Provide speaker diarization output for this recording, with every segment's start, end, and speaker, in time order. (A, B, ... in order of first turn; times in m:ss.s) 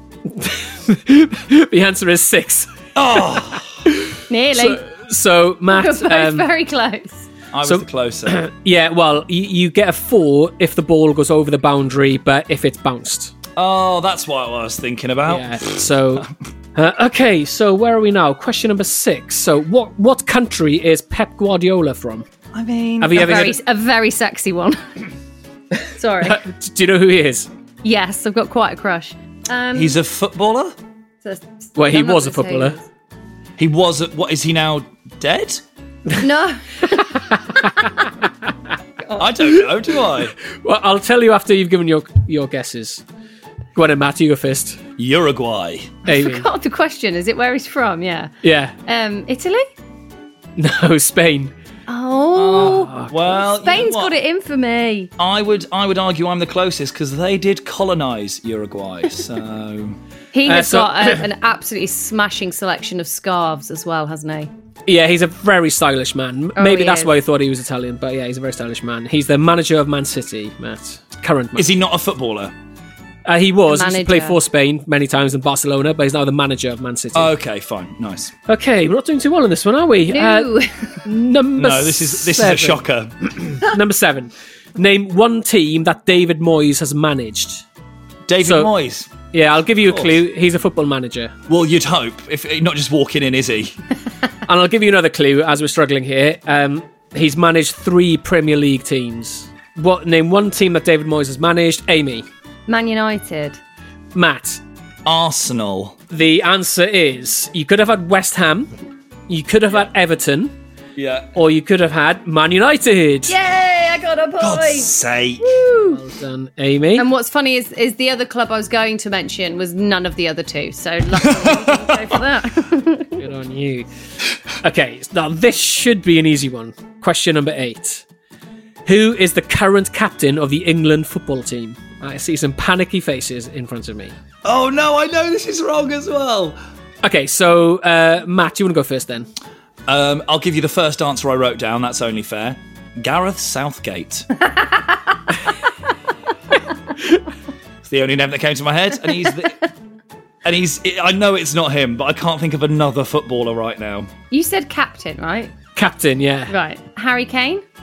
0:00.3-0:02.7 A
0:02.9-0:03.8 B
0:03.3-0:06.5 A
0:04.3-0:04.8 C
0:05.7-0:07.3 C
0:07.5-0:08.4 B
0:07.6-0:13.3 A
0:13.6-0:16.3 B
0:15.3-0:22.2 A
0:22.5-0:23.6 B
0:23.0-0:23.6 A
0:23.1-0:24.8 C
0:25.9-0:26.4 C
0:26.2-0:27.5 A
0:27.8-0:30.0 C
0:29.7-0:30.8 B
0:31.2-0:32.8 C
0:31.8-0:32.8 A
0:33.6-0:35.6 B
0:36.2-0:38.1 C
0:36.9-0:37.9 A
0:39.0-0:39.3 C
0:39.2-0:40.3 B
0:40.4-0:43.0 A
0:43.7-0:44.8 A
0:45.0-0:46.0 B
0:46.1-0:46.5 A
0:46.1-0:48.3 C
0:48.4-0:48.7 A
0:48.9-0:49.6 C
0:50.6-0:51.5 A
0:51.9-0:55.1 C
0:52.3-0:54.1 B
0:52.6-0:53.2 A
0:55.2-1:00.0 B
1:00.3-1:04.5 C
1:00.4-1:01.2 A
1:04.9-1:11.7 A
1:06.6-1:07.1 C
1:11.6-1:12.5 B
1:13.2-1:17.3 A
1:13.7-1:14.4 C
1:17.1-1:18.3 B
1:18.5-1:20.5 A
1:20.1-1:21.0 C
1:21.0-1:22.8 A
1:21.6-1:23.6 B
1:23.6-1:27.6 A
1:28.3-1:29.1 B
1:28.4-1:28.7 A
1:29.3-1:31.3 A
1:29.8-1:30.2 B
1:31.5-1:33.8 B
1:34.4-1:42.2 A
1:42.7-1:43.6 C
1:44.1-1:44.6 A
1:45.0-1:46.0 B
1:46.1-1:48.7 A
1:49.3-1:50.5 A
1:51.0-1:51.3 B
1:51.3-1:53.4 A
1:53.3-1:56.0 C
1:54.4-1:55.4 B
1:55.8-1:57.1 A
1:57.0-2:03.2 C
2:01.2-2:02.2 B
2:03.2-2:03.9 A
2:04.6-2:08.0 A
2:08.8-2:14.1 A
2:14.4-2:16.6 B
2:17.0-2:19.3 A
2:19.9-2:24.3 B
2:24.4-2:25.0 C
2:27.8-2:29.6 B
2:29.3-2:29.5 C
2:30.4-2:34.1 B
2:34.3-2:35.5 C
2:35.7-2:36.6 A
2:36.5-2:37.6 C